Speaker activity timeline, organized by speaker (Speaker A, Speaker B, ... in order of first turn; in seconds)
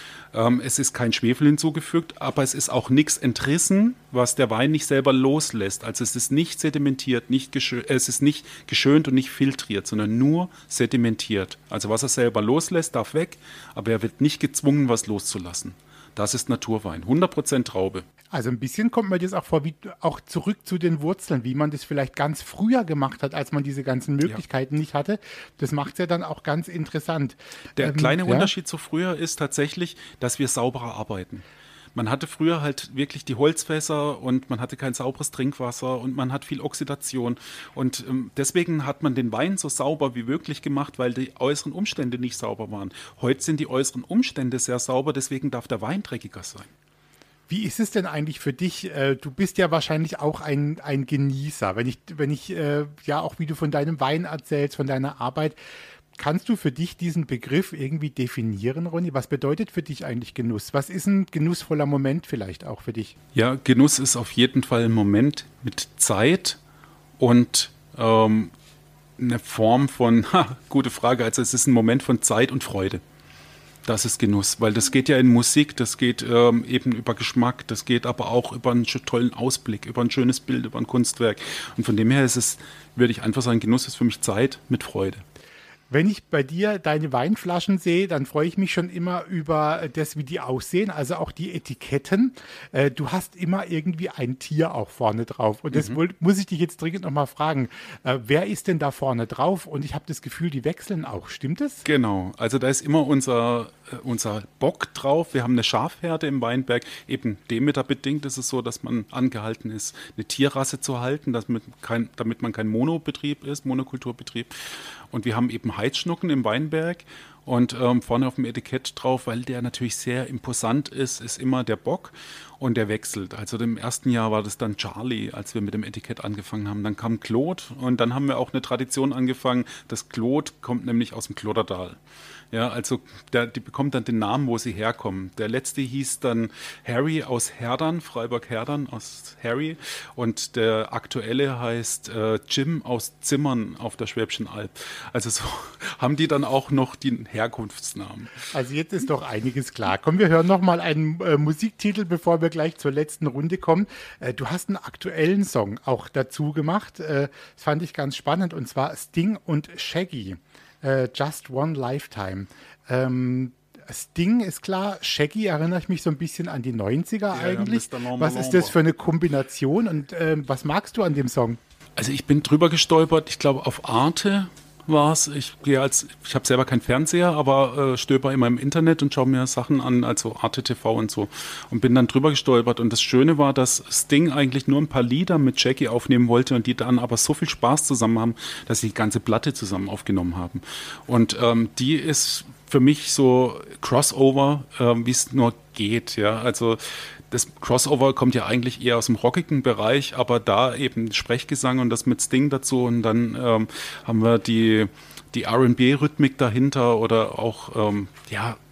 Speaker A: 0.3-18.0, 27.8-31.4, 31.9-46.7, 63.3-66.6, 67.2-68.5, 69.2-73.0, 73.8-85.2, 95.7-96.0, 101.8-114.5, 115.1-132.0, 132.5-148.3, 167.3-168.8, 172.0-208.6
Speaker B: 18.3-28.5, 47.5-55.6, 56.2-63.1, 85.9-101.8, 148.5-171.6